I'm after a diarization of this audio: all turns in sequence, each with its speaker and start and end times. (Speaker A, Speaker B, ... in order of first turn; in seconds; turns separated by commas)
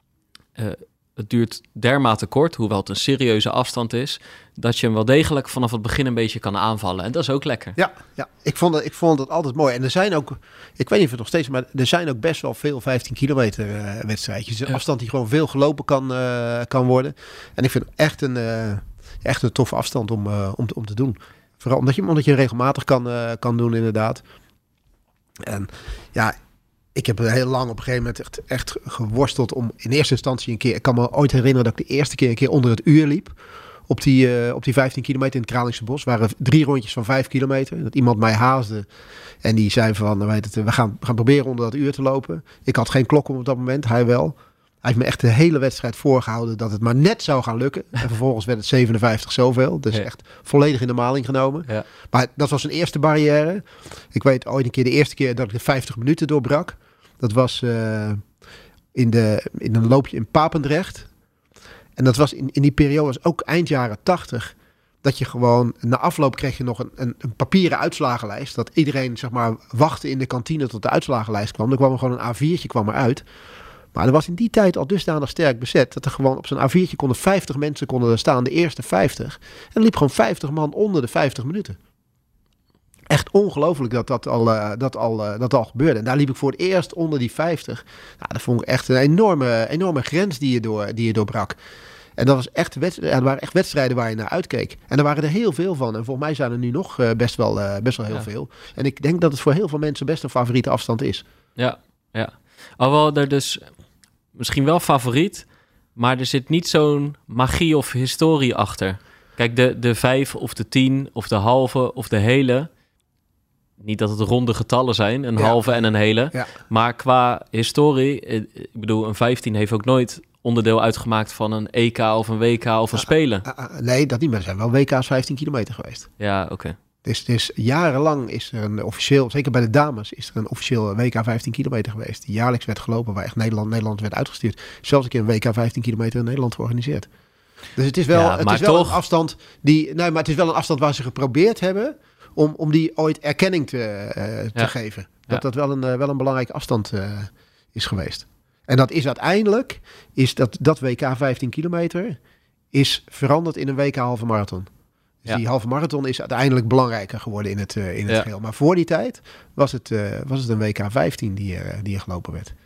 Speaker A: 0.6-7.8, Speaker B: 7.8-24.2, Speaker B: 25.4-26.4, Speaker B: 26.9-33.3, Speaker B: 33.9-38.9, Speaker B: 39.4-58.2, Speaker B: 58.9-61.1, Speaker B: 62.0-73.2, Speaker B: 73.9-81.8, Speaker B: 83.1-91.6, Speaker B: 92.2-101.2, Speaker A: 101.6-103.7, Speaker A: 104.3-112.7, Speaker A: 113.8-123.5, Speaker B: 115.4-115.7, Speaker B: 122.9-126.1, Speaker A: 126.2-126.7, Speaker B: 127.0-137.1, Speaker B: 137.7-152.2, Speaker A: 138.1-139.0, Speaker B: 152.7-154.7, Speaker B: 155.2-162.5